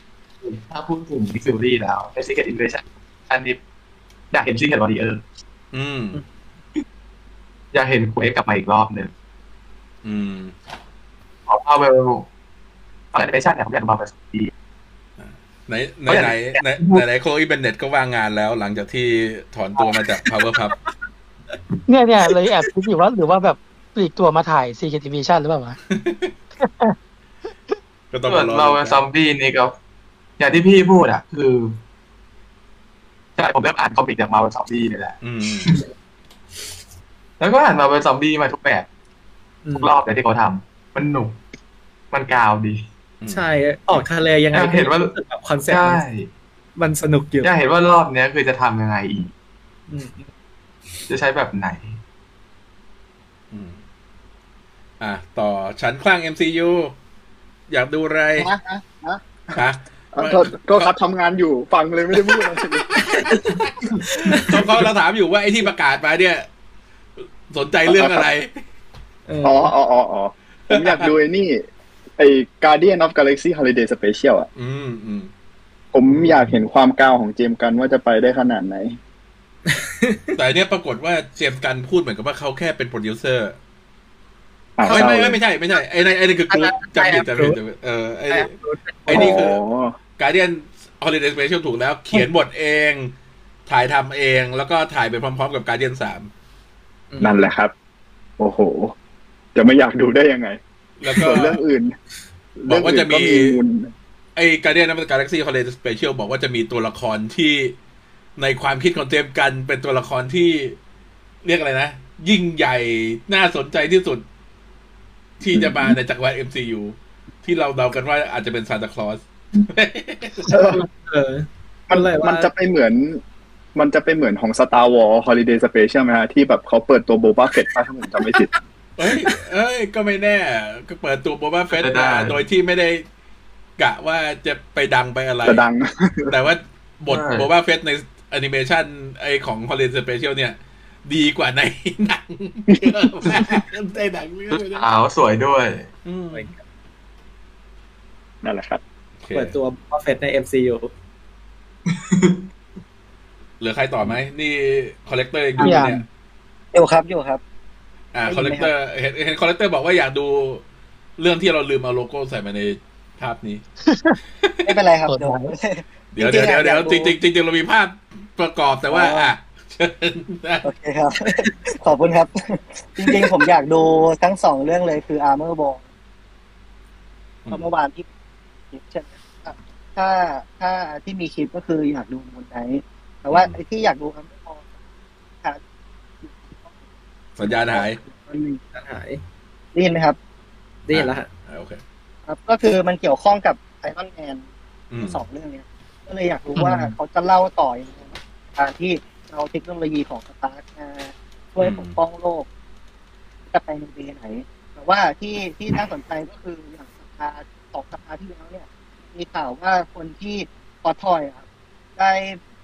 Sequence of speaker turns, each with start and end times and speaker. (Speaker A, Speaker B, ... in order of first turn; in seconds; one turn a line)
Speaker A: 0.4-3.6
Speaker A: 4.3-5.2
Speaker B: 5.7-6.2
Speaker A: 7.7-9.1
Speaker B: 10.0-10.5
Speaker A: 11.5-12.3
Speaker A: 13.1-14.5
Speaker B: 15.2-20.8
Speaker A: 16.1-17.1
Speaker C: 21.9-25.8
Speaker B: 25.9-26.3
Speaker C: 26.6-26.9
Speaker B: 28.1-29.0
Speaker A: 28.3-29.7
Speaker A: 30.4-31.8
Speaker A: 33.4-35.9
Speaker B: 35.2-35.7
Speaker A: 37.4-38.9
Speaker D: 39.6-39.9
Speaker A: 39.8-41.4
Speaker A: 42.1-42.9
Speaker B: 43.2-44.0
Speaker D: 43.3-46.0
Speaker A: 44.5-45.1
Speaker A: 45.7-46.3
Speaker D: 46.8-47.5
Speaker A: 47.4-49.3
Speaker D: 49.9-50.3
Speaker A: 51.1-52.0
Speaker B: 53.5-53.8
Speaker B: 55.0-56.9
Speaker B: 57.7-58.5
Speaker E: 58.4-59.2
Speaker B: 59.5-60.9
Speaker F: 60.1-63.0
Speaker B: 62.1-66.5
Speaker D: 63.3-64.7
Speaker B: 67.5-68.6
Speaker F: 67.9-68.3
Speaker D: 69.3-69.7
Speaker F: 69.4-71.7
Speaker B: 70.7-71.1
Speaker F: 72.2-74.5
Speaker B: 74.6-75.3
Speaker F: 75.9-79.0
Speaker D: 79.7-80.4
Speaker B: 80.4-83.6
Speaker F: 84.8-85.4
Speaker B: 84.8-88.5
Speaker D: 86.5-87.6
Speaker D: 88.3-89.4
Speaker F: 89.1-90.0
Speaker B: 89.1-89.6
Speaker B: 90.2-93.1
Speaker B: 93.7-96.3
Speaker D: 97.1-97.5
Speaker F: 97.2-97.7
Speaker F: 98.4-98.9
Speaker F: 99.5-101.9
Speaker B: 101.0-101.6
Speaker F: 102.6-103.9
Speaker B: 102.7-103.6
Speaker B: 104.4-107.7
Speaker B: 108.4-110.8
Speaker B: 111.4-114.2
Speaker B: 115.4-120.5
Speaker F: 115.5-116.0
Speaker F: 120.5-120.8
Speaker D: 120.5-122.5
Speaker F: 121.9-123.2
Speaker F: 123.8-128.5
Speaker B: 129.0-133.0
Speaker A: 131.7-132.4
Speaker B: 133.8-135.6
Speaker F: 135.4-136.3
Speaker B: 136.3-144.8
Speaker A: 137.1-137.5
Speaker A: 144.5-145.9
Speaker B: 146.1-146.5
Speaker F: 148.4-148.8
Speaker B: 149.2-149.6
Speaker D: 149.3-150.9
Speaker A: 151.9-152.4
Speaker B: 153.6-156.0
Speaker C: 155.6-156.0
Speaker E: 156.7-157.4
Speaker B: 158.1-160.6
Speaker E: 158.3-158.7
Speaker B: 161.2-163.6
Speaker C: 163.9-164.2
Speaker B: 164.4-164.8
Speaker E: 164.7-167.2
Speaker C: 165.1-165.5
Speaker B: 166.1-170.7
Speaker E: 168.9-169.3
Speaker E: 170.6-175.8
Speaker E: 177.5-178.1
Speaker E: 178.7-184.7
Speaker B: 183.3-183.6
Speaker E: 186.2-186.7
Speaker B: 187.4-188.0
Speaker E: 187.4-188.6
Speaker D: 188.7-189.2
Speaker E: 189.8-190.2
Speaker D: 190.9-191.3
Speaker B: 190.9-191.8
Speaker E: 192.3-194.4
Speaker B: 194.9-195.2
Speaker E: 195.0-202.5
Speaker B: 201.6-201.9
Speaker E: 203.5-211.4
Speaker E: 212.0-212.4